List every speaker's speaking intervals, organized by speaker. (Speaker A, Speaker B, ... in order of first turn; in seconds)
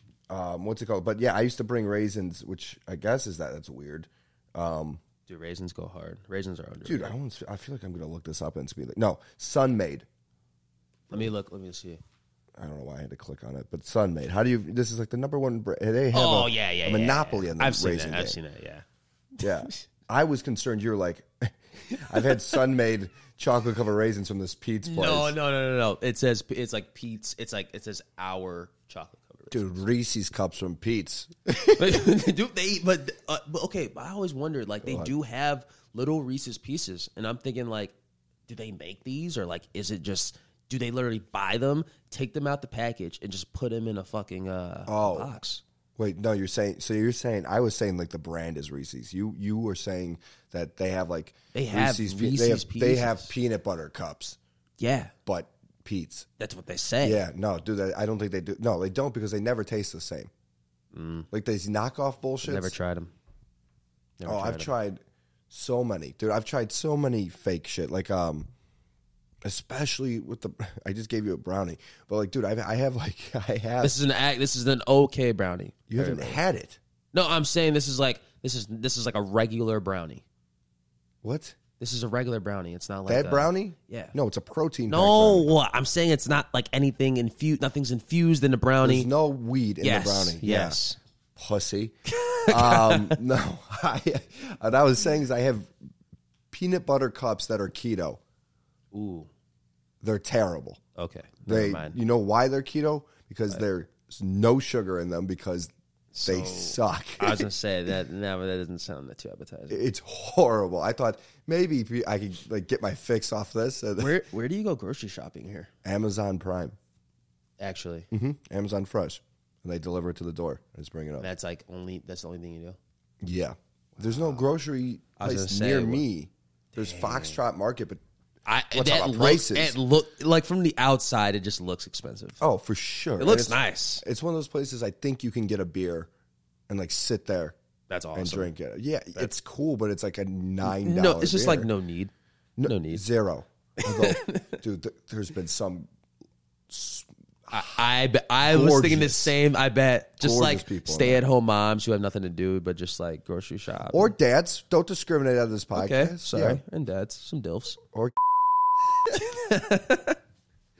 Speaker A: 0.3-5.0, 6.8-10.1, 12.6-18.4, 19.4-25.3, 29.5-32.1, 34.8-35.1, 44.9-45.3, 46.0-54.4, 55.3-56.3, 57.0-60.3, 61.3-62.7, 64.2-68.5, 69.5-74.0, 75.9-76.8, 81.2-81.6, 83.1-85.5, 88.8-90.8, 91.4-92.0, 92.5-95.7, 96.5-98.2, 100.0-100.8, 101.5-105.7, 106.3-107.5, 109.7-114.2, 115.8-116.8, 118.1-121.3, 123.2-128.0, 128.7-129.8, 132.4-136.1, 136.7-137.6, 138.2-141.7, 142.6-145.9, 146.7-147.8, 148.4-149.4, 150.2-151.2, 153.9-156.6, 157.9-158.3, 158.8-159.2
Speaker B: 5.3-7.2, 11.1-12.0, 16.1-18.9, 21.9-22.6, 24.9-29.9, 31.8-37.9, 38.5-45.6, 51.5-53.4, 54.8-55.1, 56.4-57.2, 60.9-61.3, 62.4-63.1, 64.2-64.7, 73.8-76.4, 77.1-80.2, 81.8-84.1, 84.9-89.1, 89.8-91.0, 92.1-93.2, 98.9-99.3, 101.0-102.0, 106.1-109.8, 114.0-115.7, 117.6-118.1, 121.2-122.8, 125.2-126.1, 126.8-127.4, 128.5-132.4, 133.2-134.0, 137.9-138.5, 140.6-142.1, 142.7-143.0, 143.8-144.6, 147.5-154.1, 155.7-157.8, 159.1-160.2